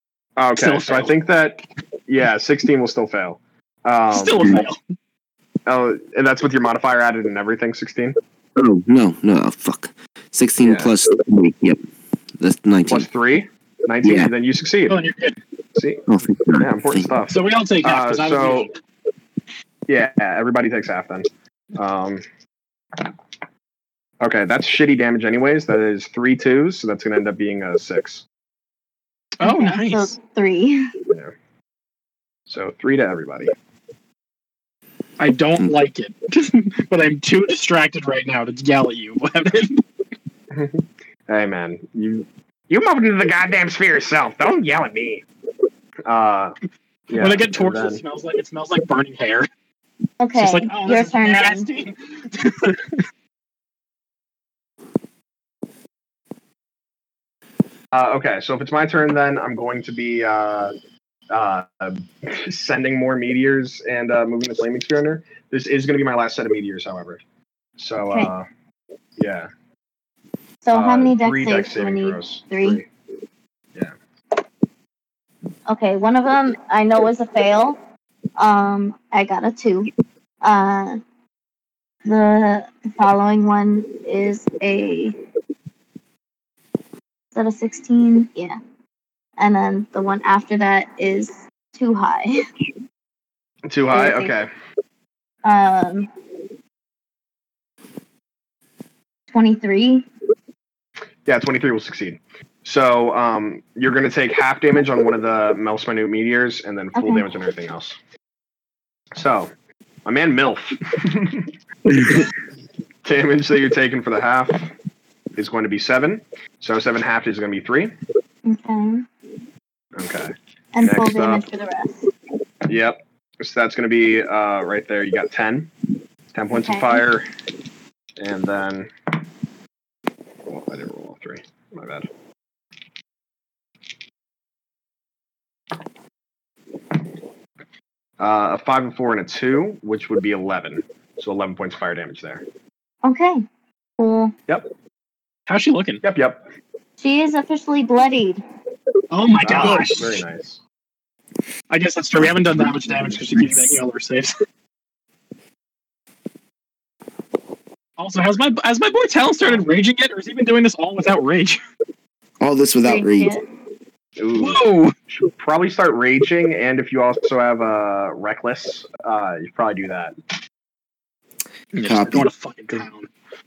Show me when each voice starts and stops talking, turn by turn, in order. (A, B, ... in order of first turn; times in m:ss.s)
0:00.4-0:04.6 A
0:00.6-0:01.1 B
0:04.1-0:04.8 B
0:05.6-0:08.2 A
0:08.6-0:11.8 C
0:10.6-0:10.9 A
0:12.4-0:13.1 C
0:12.9-0:15.0 A
0:14.0-0:14.3 C
0:14.9-0:15.4 B
0:15.8-0:16.0 A
0:16.1-0:17.1 C
0:16.6-0:18.7 A
0:17.3-0:18.7 B
0:19.9-0:22.2 A
0:24.2-0:28.2 A
0:29.4-0:30.1 B
0:29.4-0:30.9 D
0:32.5-0:33.5 A
0:35.2-0:39.8 B
0:40.5-0:45.2 A
0:46.0-0:46.5 A
0:47.1-0:48.0 A
0:47.1-0:49.5 B
0:50.2-0:51.7 D
0:50.3-0:53.0 B
0:57.9-1:00.7 A
1:01.3-1:07.2 A
1:07.8-1:08.5 A
1:09.2-1:09.5 A
1:10.6-1:12.8 D
1:10.7-1:12.9 A
1:15.7-1:17.8 D
1:18.4-1:19.9 D
1:20.4-1:21.0 D
1:22.0-1:25.1 D
1:27.3-1:28.6 D
1:29.4-1:32.4 D
1:33.7-1:34.5 A
1:33.9-1:34.3 D
1:35.4-1:36.1 D
1:39.3-1:40.0 D
1:41.2-1:48.0 A
1:47.0-1:47.2 D
1:49.1-1:49.5 A
1:50.0-1:51.5 A
1:53.0-1:54.7 A
1:55.4-1:57.9 A
1:58.4-1:59.0 D
2:00.0-2:01.4 A
2:00.7-2:02.1 D
2:02.7-2:05.7 A
2:06.3-2:07.3 A
2:06.5-2:07.0 D
2:08.2-2:08.9 A
2:10.5-2:12.1 A
2:18.2-2:22.4 A
2:23.0-2:23.4 D
2:24.0-2:24.3 D
2:25.5-2:26.0 B
2:26.0-2:26.4 A
2:27.0-2:28.4 D
2:29.1-2:30.2 B
2:29.4-2:30.6 A
2:31.7-2:34.3 B
2:38.0-2:41.6 B
2:42.4-2:43.3 C
2:42.8-2:43.4 D
2:44.2-2:50.1 A
2:44.4-2:44.9 B
2:51.7-2:53.1 B
2:51.8-2:52.3 C